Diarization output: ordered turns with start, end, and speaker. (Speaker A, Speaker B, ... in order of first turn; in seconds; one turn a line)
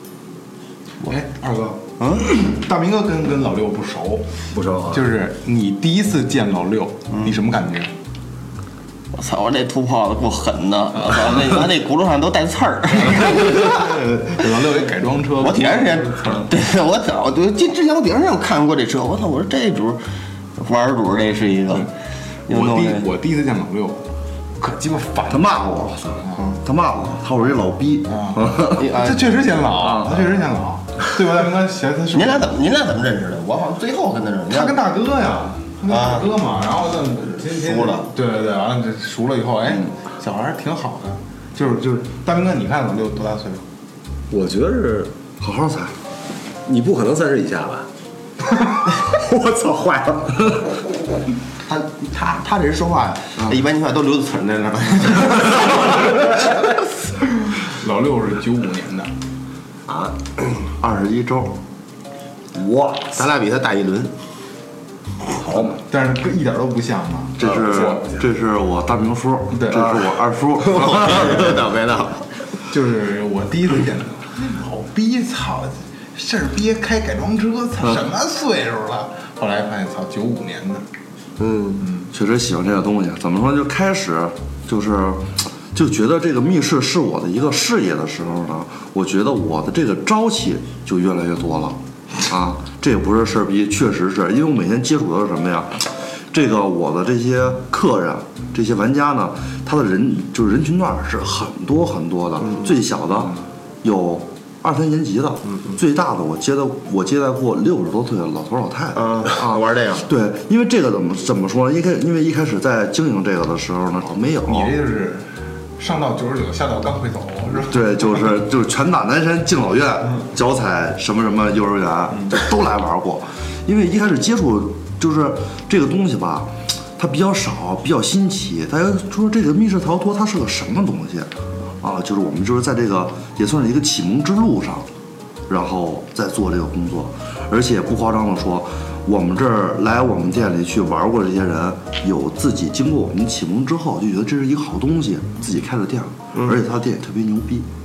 Speaker A: 1.0-4.4
Speaker B: 2.0-2.3
Speaker C: 4.5-5.0
Speaker A: 4.9-7.9
Speaker B: 9.1-13.9
Speaker A: 13.0-16.5
Speaker B: 15.4-20.0
Speaker B: 20.6-21.9
Speaker B: 22.5-23.1
Speaker A: 22.5-26.5
Speaker D: 25.3-28.9
Speaker A: 28.1-32.5
Speaker B: 28.8-29.3
Speaker D: 29.8-30.3
Speaker B: 32.1-34.7
Speaker A: 34.5-43.6
Speaker B: 35.9-36.3
Speaker B: 37.4-38.1
Speaker C: 44.3-45.1
Speaker D: 45.4-46.0
Speaker C: 46.6-47.9
Speaker C: 48.8-50.5
Speaker B: 51.6-56.6
Speaker A: 57.6-59.1
Speaker D: 60.6-61.6
Speaker C: 62.5-63.1
Speaker B: 63.1-64.1
Speaker A: 65.7-68.0
Speaker D: 67.4-71.6
Speaker C: 67.4-68.0
Speaker A: 69.5-70.0
Speaker B: 69.8-72.2
Speaker A: 72.7-80.8
Speaker B: 81.4-81.8
Speaker A: 81.8-82.1
Speaker D: 82.1-114.7
Speaker B: 108.9-110.0
Speaker A: 114.5-118.1
Speaker D: 117.5-134.9
Speaker D: 135.5-147.7
Speaker B: 146.3-146.6